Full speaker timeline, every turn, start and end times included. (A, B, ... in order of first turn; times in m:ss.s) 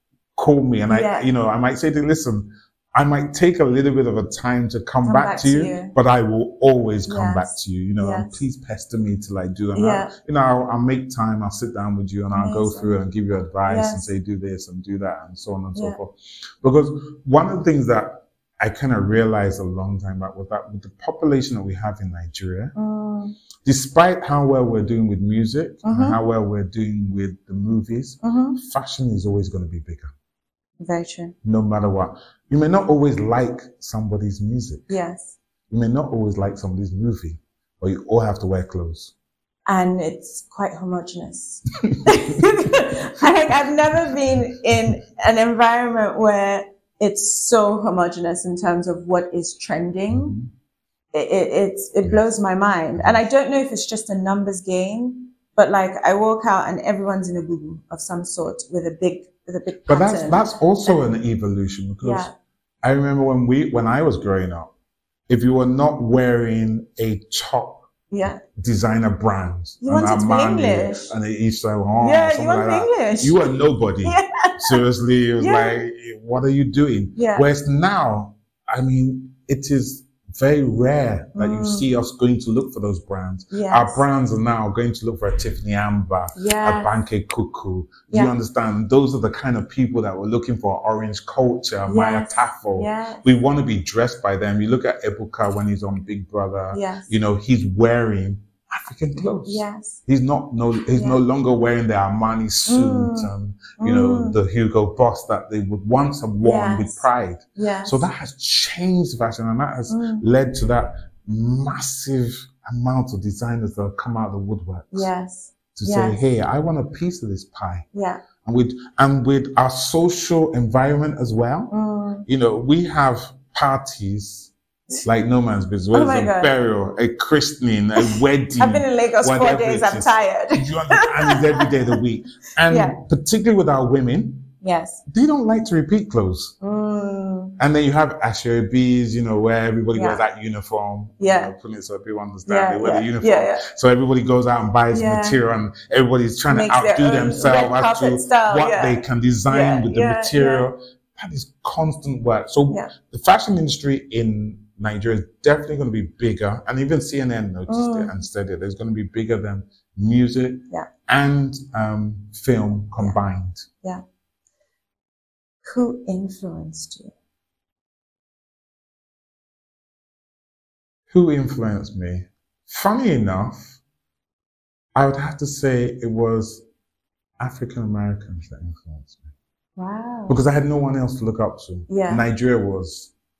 0:00.4-0:22.7 A
0:00.9-0:01.3 B
0:05.0-0:05.9 B
0:07.1-0:08.4 B
0:09.7-0:10.1 B
0:12.3-0:13.0 B
0:13.7-0:14.1 B
0:22.8-0:23.4 B
0:23.6-0:30.1 A
0:25.8-0:26.2 B
0:28.2-0:28.6 B
0:30.8-0:31.4 B
0:31.4-0:34.9 A
0:34.9-0:35.4 B
0:35.7-0:39.1 A
0:39.7-0:50.4 B
0:42.1-0:42.4 A
0:50.1-0:50.5 A
0:51.1-1:01.1 B
0:53.0-0:53.2 A
0:59.9-1:02.3 A
1:02.0-1:02.3 B
1:02.8-1:04.7 A
1:05.3-1:07.9 A
1:08.1-1:08.4 B
1:08.4-1:55.1 A
1:09.8-1:11.1 B
1:12.0-1:13.5 B
1:14.0-1:14.8 B
1:15.4-1:15.8 B
1:17.2-1:17.5 B
1:21.4-1:21.9 B
1:23.5-1:24.0 B
1:26.4-1:26.9 B
1:31.9-1:33.2 B
1:36.7-1:37.1 B
1:39.4-1:40.0 B
1:40.9-1:41.2 B
1:42.7-1:44.4 B
1:46.4-1:48.1 B
1:49.9-1:50.2 B
1:54.9-1:56.2 B
1:55.8-1:57.9 A
1:57.9-1:58.2 B
1:58.4-2:01.7 A
2:01.7-2:02.3 B
2:02.3-2:04.5 A
2:05.0-2:14.5 A
2:05.9-2:06.5 B
2:08.0-2:12.0 B
2:12.7-2:13.0 B
2:14.6-2:15.0 B
2:15.1-2:16.6 A
2:16.6-2:17.6 B
2:17.6-2:43.7 A
2:19.9-2:20.2 B
2:21.2-2:21.6 B
2:22.5-2:23.6 B
2:24.9-2:25.4 B
2:26.5-2:30.7 B
2:37.7-2:38.1 B
2:45.6-2:47.1 B
2:51.1-2:53.8 A
2:55.0-2:56.6 A
2:57.4-2:59.2 A
2:59.8-3:00.4 B
3:00.3-3:03.1 A
3:01.9-3:02.2 B